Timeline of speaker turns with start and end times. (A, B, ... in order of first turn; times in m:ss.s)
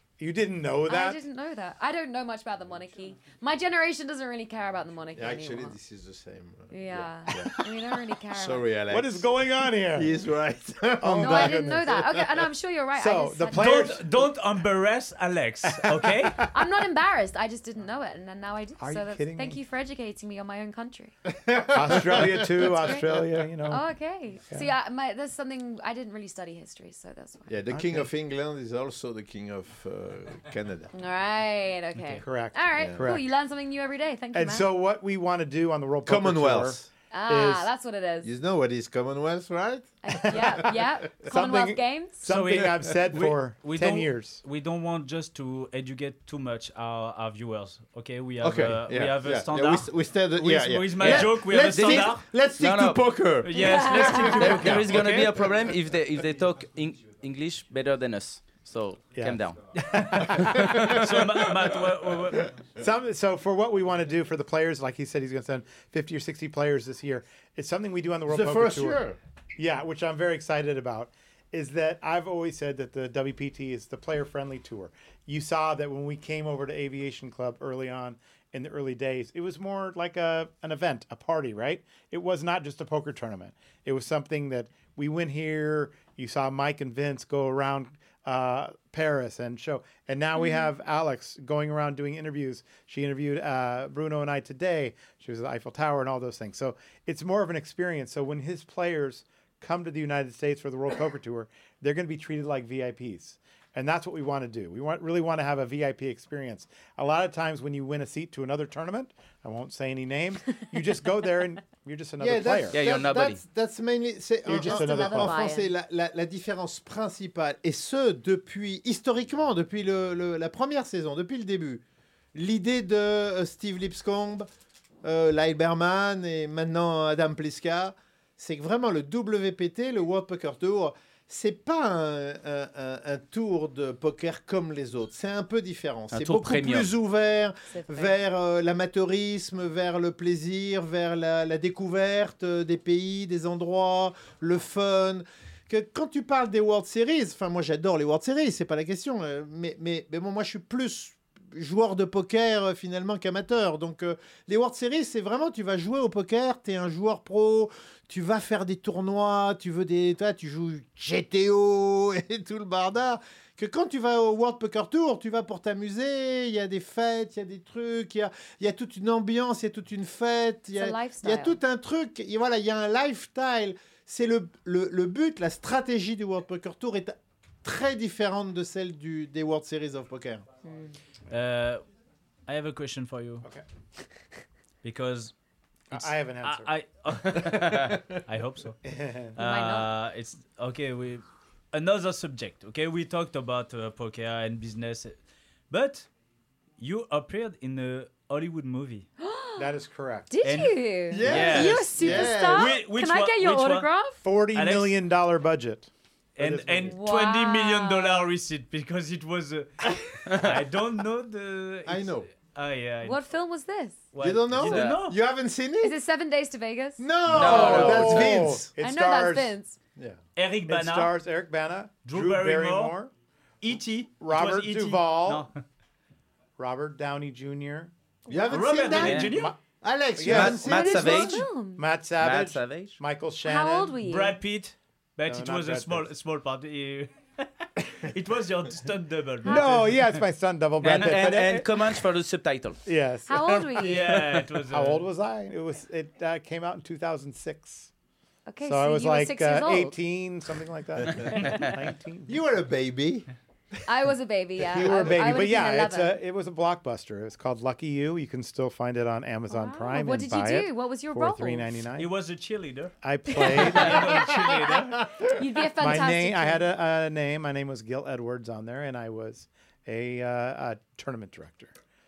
0:00.2-0:01.2 A
0:00.9-0:05.8 B
0:05.1-0:07.7 C
0:06.7-0:08.7 B
0:08.3-0:09.3 C
0:08.9-0:10.2 A
0:09.9-0:12.5 C
0:11.0-0:11.9 A
0:11.2-0:14.0 B
0:12.9-0:14.3 A
0:13.5-0:16.4 D
0:15.6-0:16.6 A
0:16.4-0:21.1 B
0:18.8-0:19.6 A
0:21.2-0:23.3 C
0:21.7-0:23.8 A
0:22.6-0:23.1 B
0:23.6-0:27.5 B
0:27.5-0:30.9 C
0:27.7-0:28.1 A
0:30.9-0:34.7 B
0:32.1-0:33.3 A
0:32.7-0:33.0 C
0:34.3-0:37.7 A
0:36.0-0:36.9 C
0:37.1-0:38.3 B
0:38.2-0:41.2 C
0:40.0-0:42.3 B
0:41.2-0:44.4 A
0:42.2-0:52.2 D
0:48.4-0:55.5 C
0:51.0-0:53.2 E
0:53.4-0:55.3 D
0:53.5-0:54.7 B
0:54.3-0:59.6 E
0:59.1-1:00.9 A
0:59.7-1:02.4 D
1:00.5-1:01.2 E
1:02.8-1:09.0 A
1:08.3-1:09.2 C
1:09.6-1:52.8 A
1:30.4-1:30.7 B
1:52.2-2:01.8 C
1:52.7-1:53.4 E
1:54.4-1:55.4 A
1:54.5-1:55.7 B
2:02.3-2:04.5 C
2:05.0-3:00.4 C
2:16.1-2:16.9 E
2:17.7-2:18.1 B
2:50.7-2:51.6 B
3:00.6-3:01.0 B
3:01.3-3:01.8 D
3:02.5-3:03.4 D
3:04.8-3:05.3 D
3:05.9-3:06.7 A
3:05.9-3:08.8 D
3:08.8-3:09.4 A
3:09.4-3:15.2 D
3:09.4-3:09.9 B
3:15.7-3:16.1 D
3:16.8-3:19.1 D
3:19.2-3:19.7 B
3:19.6-3:20.3 A
3:20.3-3:24.2 B
3:20.4-3:23.9 D
3:21.1-3:22.8 C
3:24.2-3:26.9 A
3:24.5-3:24.9 D
3:26.4-3:33.2 D
3:26.8-3:28.3 B
3:30.3-3:30.5 E
3:31.9-3:32.3 C
3:33.0-3:34.0 B
3:34.1-3:35.2 D
3:34.2-3:36.0 C
3:34.6-3:35.0 E
3:35.8-3:37.9 B
3:37.0-3:38.7 C
3:37.3-3:38.4 E
3:37.4-3:39.5 A
3:38.8-3:39.8 B
3:40.4-3:41.1 D
3:40.7-3:43.1 A
3:42.0-3:43.0 D
3:43.6-3:45.6 D
3:44.2-3:45.5 A
3:46.6-3:47.9 A
3:48.3-3:51.4 C
3:48.5-3:49.5 D
3:48.9-3:49.3 E
3:49.1-3:49.6 A
3:50.2-3:54.0 A
3:50.3-3:51.4 E
3:50.7-3:51.8 B
3:52.2-3:53.0 E
3:53.4-3:54.4 B
3:54.0-4:00.1 D
3:55.3-3:56.1 A
3:59.4-3:59.9 B
3:59.4-4:02.0 A
4:00.8-4:02.8 E
4:00.9-4:01.4 D
4:02.8-4:07.9 A
4:03.3-4:04.1 B
4:03.8-4:05.0 D
4:08.4-4:10.0 B
4:08.6-4:12.4 A
4:11.3-4:11.6 D
4:12.3-4:13.3 C
4:13.9-4:16.1 B
4:14.7-4:22.1 A
4:14.7-4:15.4 C
4:19.5-4:21.7 B
4:22.0-4:22.9 D
4:23.0-4:24.1 A
4:23.3-4:24.0 B
4:23.5-4:25.0 D
4:25.2-4:26.6 B
4:25.8-4:31.7 A